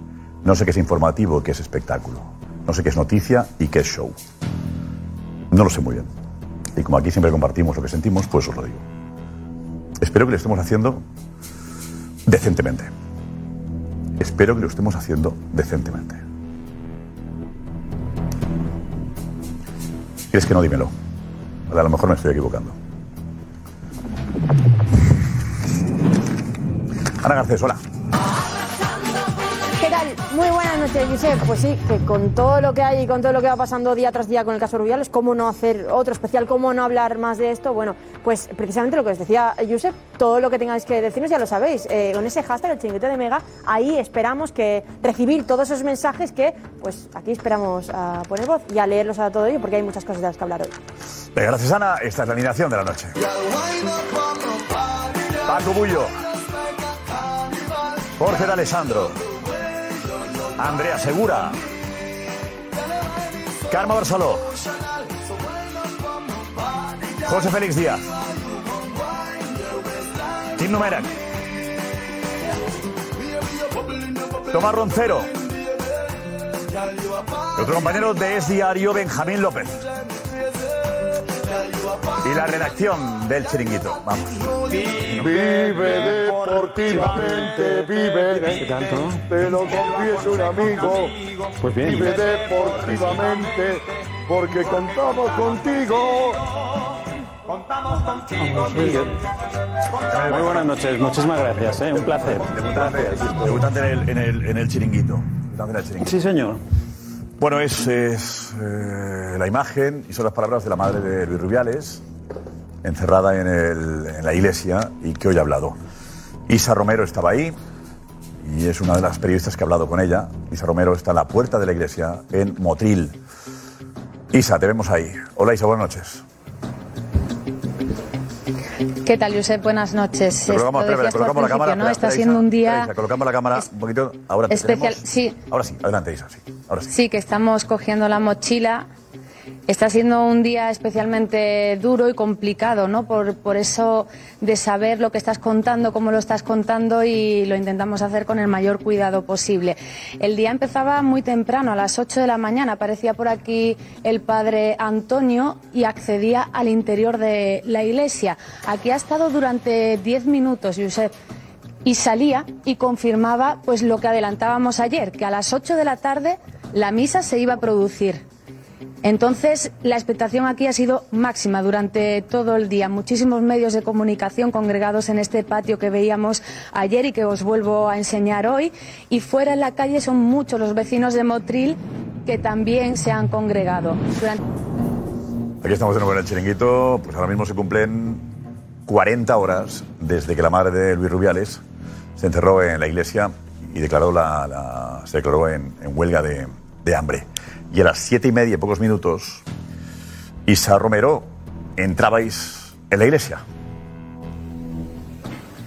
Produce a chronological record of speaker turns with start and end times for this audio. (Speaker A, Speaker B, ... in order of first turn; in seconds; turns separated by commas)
Speaker A: 0.4-4.2, Speaker A: 5.5-6.1, Speaker A: 6.8-8.8, Speaker A: 10.0-11.0, Speaker A: 12.3-12.9, Speaker A: 14.2-16.2, Speaker A: 20.3-20.9, Speaker A: 21.7-22.8, Speaker A: 27.2-27.8, Speaker B: 29.8-50.8, Speaker A: 51.3-53.1, Speaker A: 55.4-56.1, Speaker A: 58.2-59.2, Speaker A: 60.6-61.6, Speaker A: 63.7-64.5, Speaker A: 67.2-68.1, Speaker A: 70.5-71.1, Speaker A: 74.5-75.3, Speaker A: 77.5-79.9, Speaker A: 82.2-84.6, Speaker C: 85.1-91.1, Speaker D: 88.4-89.2, Speaker D: 91.6-92.2, Speaker C: 91.8-96.4, Speaker D: 98.5-99.1, Speaker A: 100.1-100.7, Speaker D: 100.3-102.5, Speaker A: 101.7-106.1, Speaker D: 106.0-106.6, Speaker A: 107.4-112.0, Speaker A: 112.8-115.8, Speaker A: 116.5-117.5, Speaker A: 118.4-123.2, Speaker A: 124.3-126.2, Speaker E: 129.0-132.9, Speaker A: 130.5-136.9, Speaker E: 134.5-135.4, Speaker E: 136.9-138.9, Speaker E: 139.7-161.1, Speaker E: 161.8-168.2, Speaker E: 169.0-184.4, Speaker A: 185.6-188.3, Speaker A: 188.8-191.6, Speaker A: 192.2-199.4, Speaker A: 200.4-203.4